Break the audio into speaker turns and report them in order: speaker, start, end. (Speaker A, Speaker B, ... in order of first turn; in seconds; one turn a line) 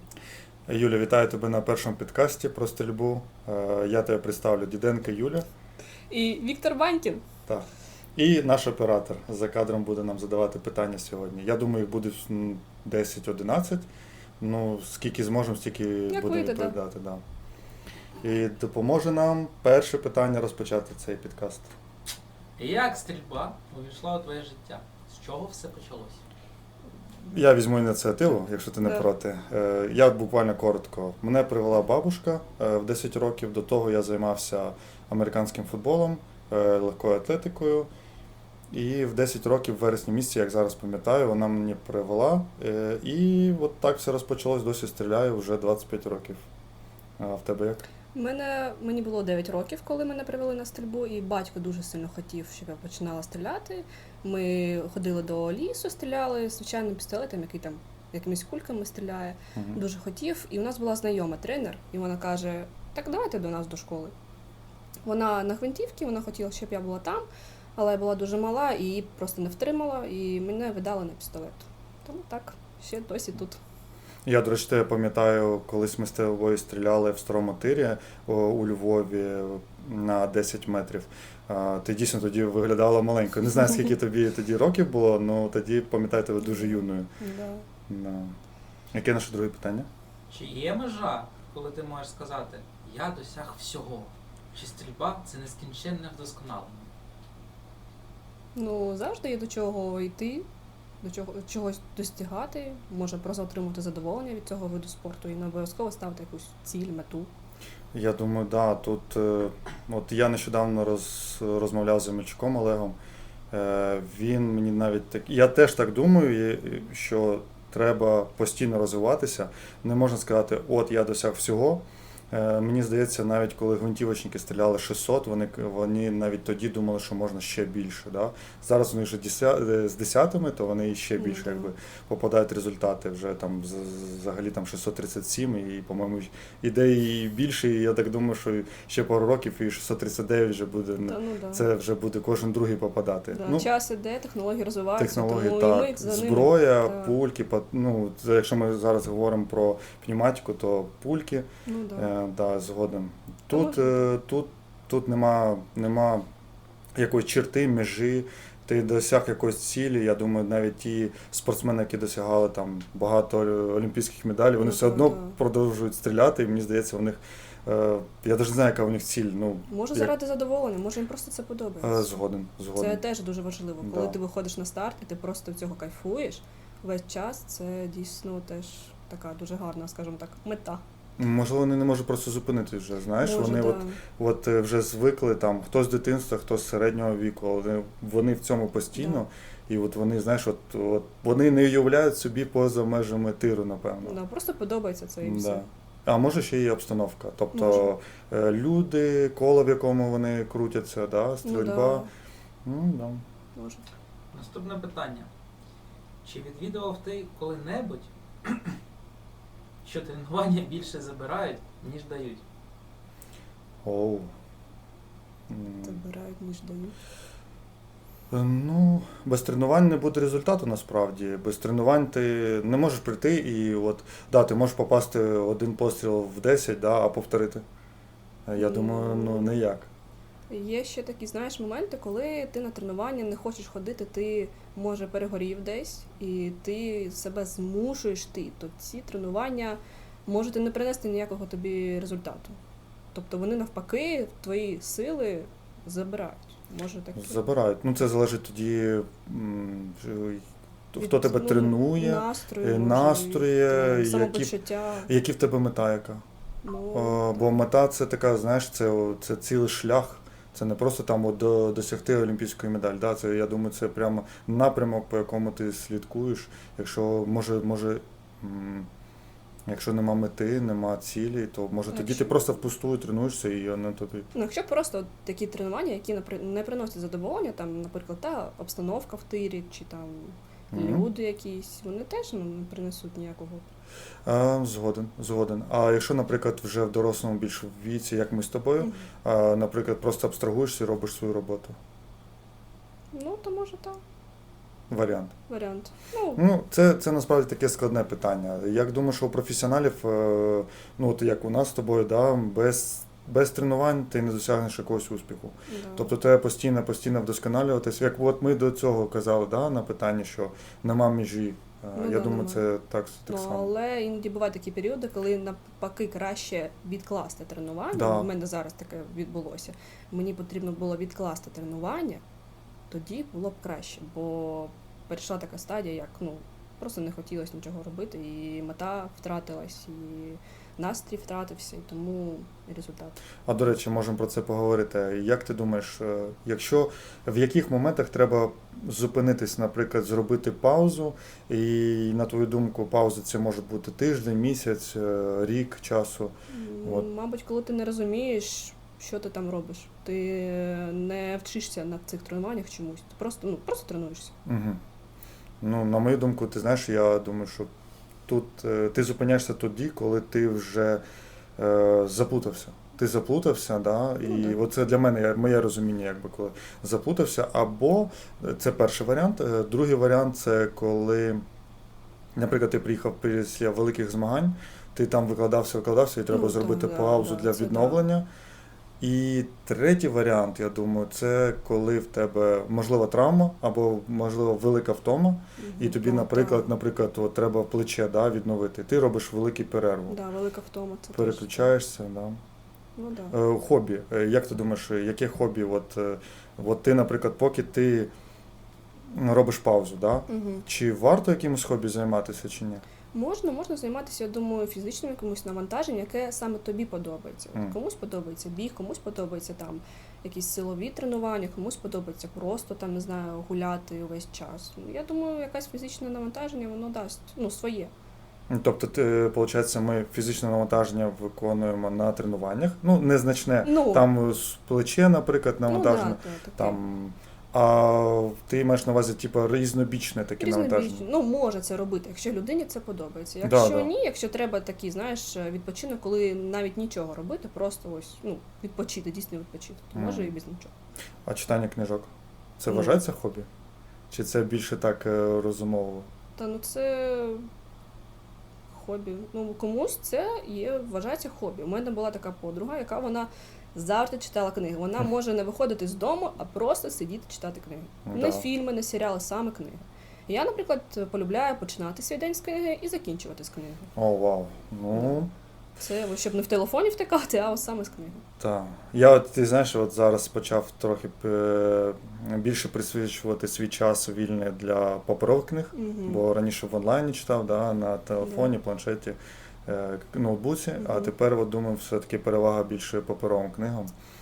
Speaker A: 0.7-5.5
Speaker B: 6.1-7.2
Speaker A: 7.5-13.9
Speaker A: 14.4-17.2
Speaker B: 16.1-16.8
Speaker A: 18.2-21.7
Speaker C: 22.6-26.2
Speaker A: 27.2-37.9
Speaker A: 38.7-46.5
Speaker A: 47.2-47.9
Speaker B: 48.1-64.1
Speaker A: 59.5-59.8
Speaker B: 65.0-73.6
Speaker A: 74.3-87.1
Speaker B: 86.4-87.7
Speaker A: 87.9-88.3
Speaker A: 88.9-89.9
Speaker C: 90.3-96.9
Speaker B: 98.5-100.5
Speaker B: 101.0-107.3
Speaker A: 107.9-113.0
Speaker A: 113.5-143.7
Speaker B: 131.2-131.7
Speaker B: 141.1-141.6
Speaker B: 143.3-147.1
Speaker A: 145.0-156.3
Speaker B: 151.7-152.1
Speaker B: 153.5-154.0
Speaker A: 156.9-170.1
Speaker B: 164.6-165.3
Speaker B: 169.7-172.1
Speaker A: 171.8-173.0
Speaker B: 172.8-180.8
Speaker A: 173.8-174.2
Speaker A: 181.2-194.2
Speaker B: 183.2-184.0
Speaker B: 189.0-189.2
Speaker B: 194.0-195.6
Speaker A: 195.2-202.1
Speaker B: 197.5-197.9
Speaker B: 201.4-202.1
Speaker A: 202.6-203.2
Speaker B: 203.6-203.8
Speaker C: 204.3-205.3
Speaker C: 206.2-208.8
Speaker C: 209.8-212.4
Speaker A: 213.8-214.3
Speaker A: 215.5-216.0
Speaker B: 215.8-216.9
Speaker A: 218.3-227.6
Speaker A: 228.5-229.9
Speaker B: 228.6-229.6
Speaker B: 230.5-242.6
Speaker B: 243.1-247.4
Speaker A: 247.2-254.5
Speaker B: 251.0-255.1
Speaker A: 255.1-256.2
Speaker B: 256.6-257.4
Speaker A: 256.9-268.9
Speaker A: 269.7-274.3
Speaker B: 271.9-272.5
Speaker B: 274.3-283.7
Speaker A: 280.7-281.1
Speaker A: 284.3-291.8
Speaker B: 288.8-289.1
Speaker B: 293.1-294.0
Speaker A: 294.9-295.4
Speaker B: 295.5-296.4
Speaker A: 296.4-313.7
Speaker B: 305.7-306.1
Speaker B: 312.0-312.7
Speaker B: 313.3-322.2
Speaker A: 317.9-318.3
Speaker B: 322.9-333.2
Speaker A: 333.5-347.1
Speaker B: 346.5-354.3
Speaker A: 354.5-354.8
Speaker A: 355.6-357.7
Speaker A: 358.3-361.0
Speaker A: 361.6-371.4
Speaker B: 364.2-364.6
Speaker A: 372.4-378.3
Speaker B: 376.3-378.0
Speaker A: 379.0-390.2
Speaker B: 385.6-386.8
Speaker B: 390.1-391.7
Speaker A: 391.1-392.4
Speaker B: 393.0-393.4
Speaker A: 393.3-398.1
Speaker A: 399.1-402.8
Speaker B: 400.3-400.7
Speaker B: 403.1-417.9
Speaker A: 418.5-431.0
Speaker B: 423.6-424.1
Speaker B: 425.7-426.8
Speaker B: 430.4-440.7
Speaker A: 433.4-433.9
Speaker A: 439.9-440.4
Speaker A: 441.3-443.5
Speaker B: 442.7-443.0
Speaker A: 444.1-446.1
Speaker B: 446.4-447.5
Speaker B: 448.7-463.9
Speaker A: 458.1-458.4
Speaker A: 464.0-465.3
Speaker B: 464.9-465.2
Speaker B: 465.8-468.2
Speaker A: 468.4-483.9
Speaker B: 475.8-476.2
Speaker B: 478.2-478.5
Speaker B: 480.8-481.1